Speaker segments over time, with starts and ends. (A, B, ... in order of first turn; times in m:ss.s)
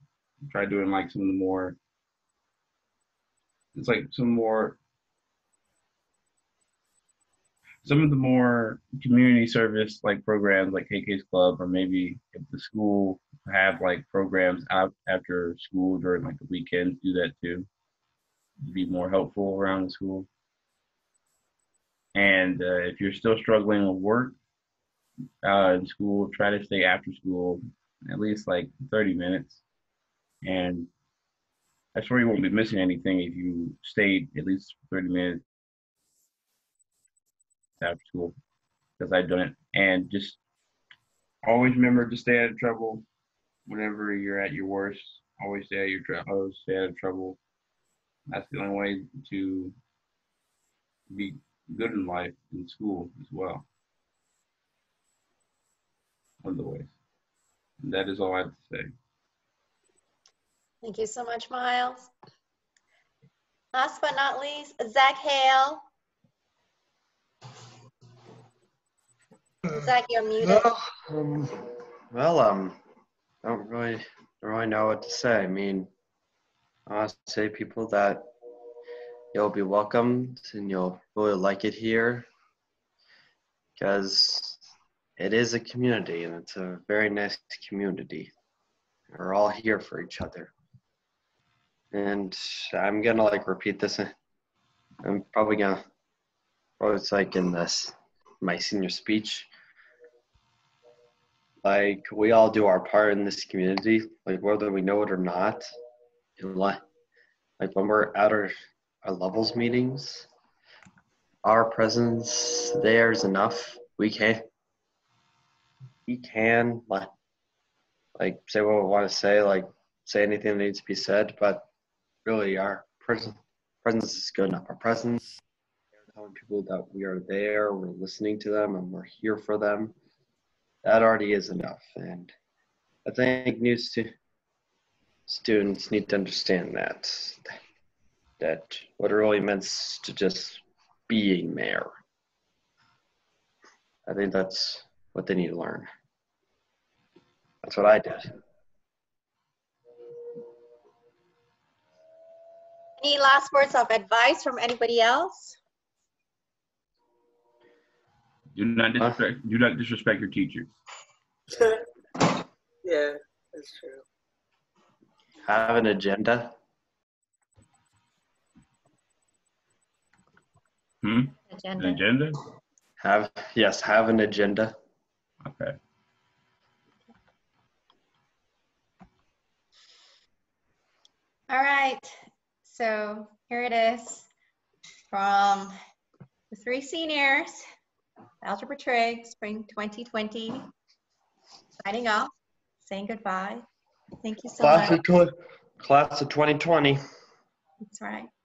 0:00.4-0:01.8 A
0:03.7-0:04.8 A
0:07.8-0:17.7 A
0:18.6-0:20.3 A
0:22.1-0:24.4 A
0:25.4-0:29.6 A
0:30.4-0:30.9 A
0:31.9-0:35.4 A
0:37.8-0:38.4 A
0:39.0-0:40.4 A
0:41.4-0:43.0 A
0:43.6-0:47.4 A
0:48.3-0:49.7 A
0:51.1-0:53.6 A
0:56.4-0:56.9 A
0:57.8-0:58.9 A
1:00.8-1:02.1 B
1:03.7-1:05.8 B
1:09.7-1:10.7 B
1:10.5-1:11.6 C
1:12.1-1:12.8 C
1:13.4-1:15.9 C
1:16.9-1:18.2 C
1:19.3-1:22.3 C
1:23.8-1:24.6 C
1:25.2-1:28.3 C
1:29.1-1:30.5 C
1:31.9-1:34.1 C
1:35.0-1:35.8 C
1:36.8-1:39.5 C
1:41.6-1:45.7 C
1:46.4-1:46.8 C
1:47.6-1:48.5 C
1:49.0-1:50.3 C
1:51.4-1:54.4 C
1:56.1-1:57.1 C
1:58.2-2:01.6 C
2:02.2-2:05.2 C
2:06.1-2:09.9 C
2:10.8-2:12.3 C
2:13.0-2:14.1 C
2:15.3-2:17.5 C
2:18.4-2:21.9 C
2:24.0-2:25.9 C
2:27.6-2:28.3 C
2:33.0-2:35.6 B
2:38.5-2:40.7 A
2:41.5-2:42.3 D
2:42.8-2:44.0 D
2:45.4-2:46.5 C
2:51.0-2:52.4 A
2:51.5-2:52.0 B
2:53.0-2:54.7 C
2:55.4-2:55.8 A
3:01.5-3:02.1 B
3:02.6-3:04.3 B
3:05.1-3:05.7 B
3:06.5-3:07.6 B
3:08.4-3:10.6 B
3:11.8-3:13.6 B
3:14.2-3:15.0 B
3:14.6-3:17.0 C
3:17.8-3:18.3 B